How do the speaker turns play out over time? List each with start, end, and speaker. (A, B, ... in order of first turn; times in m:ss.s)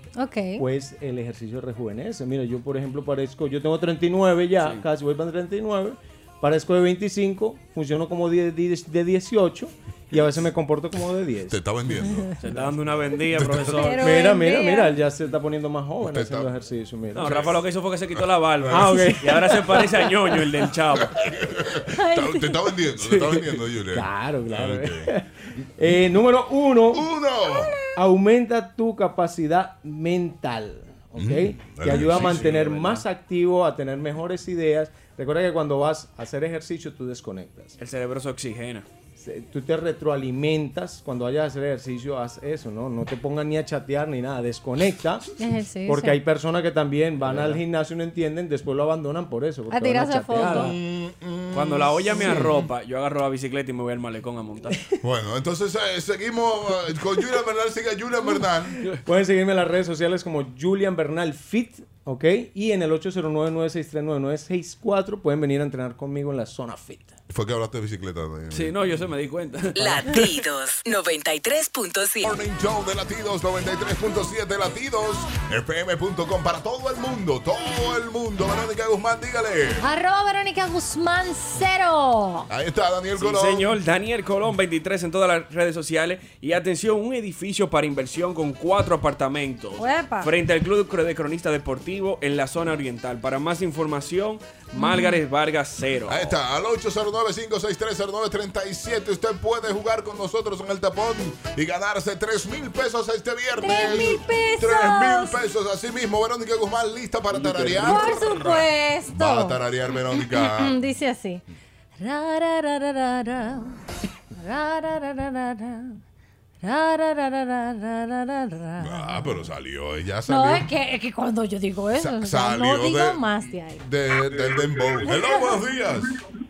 0:00.2-0:00.6 A
0:00.6-0:11.6 B
0:11.5-0:12.3 C
0:12.4-0:14.2 D
0:13.3-0:13.8 C
0:13.7-0:14.9 A
0:14.0-0:17.4 B
0:16.0-0:16.5 C
0:17.2-0:21.2 D
0:17.2-0:17.5 C
0:18.7-0:20.2 B
0:21.2-0:25.1 C
0:21.9-0:22.7 A
0:23.2-0:27.0 B
0:26.9-0:27.8 C
0:28.0-0:37.8 B
0:31.2-0:32.5 C
0:31.9-0:33.0 D
0:37.8-0:38.9 D
0:39.2-0:45.3 B
0:45.4-0:46.2 A
0:45.9-0:50.7 B
0:49.7-0:50.7 A
0:50.5-0:52.5 C
0:51.5-0:54.8 D
0:52.2-0:52.5 B
0:55.0-0:58.8 C
0:59.0-1:07.2 B
1:07.3-1:08.8 C
1:08.5-1:10.4 D
1:09.8-1:12.4 E
1:12.2-1:19.8 C
1:19.8-1:22.5 A
1:22.5-1:23.7 C
1:23.2-1:36.4 D
1:29.8-1:30.3 A
1:34.8-1:35.2 A
1:36.1-1:50.8 C
1:43.6-1:45.4 A
1:47.3-1:48.0 D
1:47.8-1:51.4 A
1:52.0-1:53.8 A
1:54.4-1:56.0 A
1:56.6-1:59.4 A
1:58.8-2:00.7 C
2:00.3-2:03.8 A
2:02.0-2:06.1 C